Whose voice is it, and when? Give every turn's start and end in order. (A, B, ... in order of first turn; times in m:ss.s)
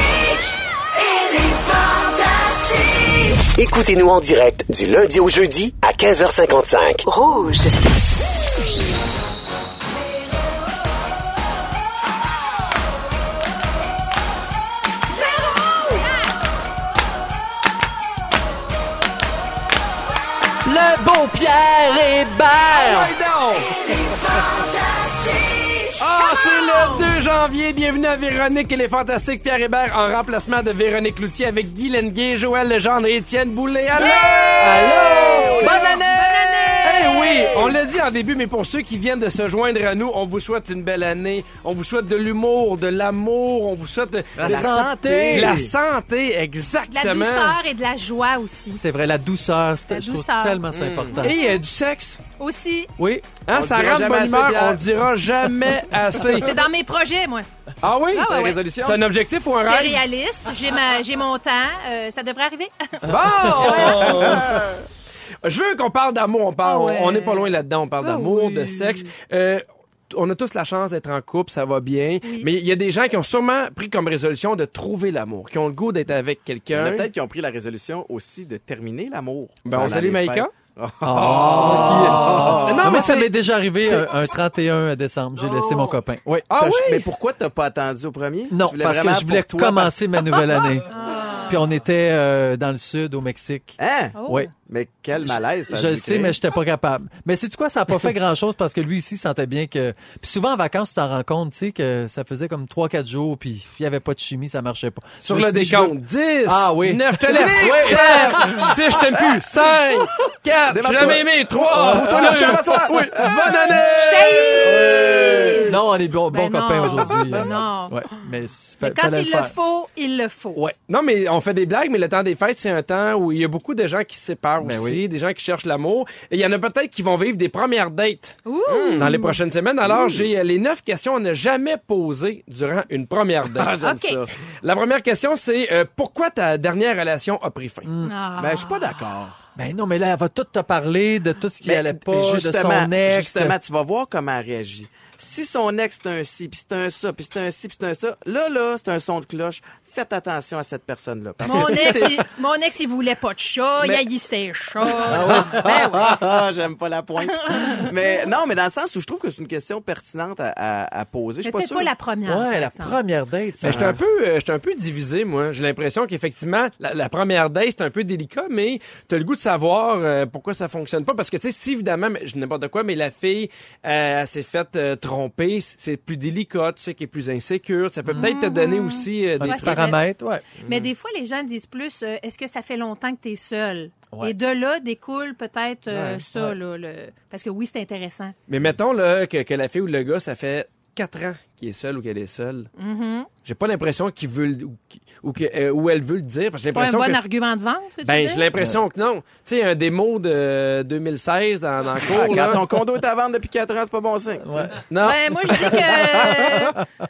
0:01.6-0:07.7 A
0:15.2-0:16.3 B
0:20.6-0:23.1 C
0:22.7-0:23.8 D
0:26.0-0:47.6 D
0:26.2-0:27.1 B
0:33.9-0:37.6 B
0:34.6-0:37.6 C
0:44.4-0:45.6 C
0:44.4-0:45.7 E
0:46.9-0:48.8 B
0:48.7-0:51.4 C
0:49.9-0:51.6 B
0:50.7-0:51.2 E
0:51.2-0:52.2 D
0:52.4-0:52.9 B
0:53.0-0:53.3 C
0:53.4-0:56.6 D
0:53.5-0:54.8 E
0:56.3-0:57.5 B
0:57.8-0:58.3 D
0:58.1-0:58.6 B
0:58.2-0:59.0 E
0:58.8-1:00.0 D
0:59.6-1:04.4 B
1:03.0-1:04.7 D
1:03.3-1:04.4 C
1:04.1-1:04.8 E
1:05.4-1:17.1 D
1:06.6-1:09.0 B
1:12.2-1:12.5 B
1:16.7-1:23.1 E
1:19.6-1:20.5 D
1:21.0-1:26.5 C
1:21.1-1:23.3 D
1:23.8-1:24.2 E
1:26.5-1:27.0 D
1:26.6-1:30.6 E
1:28.5-1:30.9 C
1:30.9-1:31.6 B
1:31.4-1:34.5 C
1:33.8-1:36.4 E
1:34.1-1:34.5 B
1:35.2-1:45.9 C
1:45.2-1:55.7 D
1:46.4-1:49.0 C
1:47.3-1:48.6 E
1:50.7-1:53.8 E
1:51.7-1:53.0 C
1:53.8-1:55.8 B
1:54.6-1:59.5 C
1:54.8-1:55.6 E
1:56.3-1:58.0 B
1:58.8-2:00.6 B
2:00.8-2:08.4 D
2:04.6-2:05.0 C
2:08.4-2:09.4 B
2:08.7-2:09.2 E
2:09.0-2:13.7 D
2:09.8-2:10.3 E
2:13.5-2:14.3 E
2:13.8-2:14.2 B
2:14.6-2:17.9 D
2:17.8-2:18.1 C
2:18.0-2:19.0 B
2:18.4-2:19.4 E
2:19.6-2:23.5 C
2:21.6-2:32.3 E
2:31.4-2:36.4 B
2:31.4-2:32.0 C
2:33.8-2:34.0 E
2:34.8-2:41.9 E
2:35.0-2:36.1 C
2:37.2-2:38.3 B
2:41.4-2:43.0 B
2:42.2-2:43.9 C
2:43.6-2:59.9 D
2:43.6-2:44.0 E
2:58.0-2:58.3 C
2:58.1-3:00.0 B
2:59.4-3:00.4 C
3:00.6-3:00.9 E
3:00.6-3:08.3 B
3:05.9-3:06.6 C
3:08.5-3:12.7 D
3:12.8-3:13.3 B
3:13.4-3:17.2 D
3:16.7-3:18.4 B
3:18.0-3:22.6 D
3:22.0-3:24.8 E
3:24.4-3:24.8 C
3:24.9-3:25.9 D
3:25.0-3:26.8 B
3:25.7-3:26.7 E
3:26.5-3:26.8 C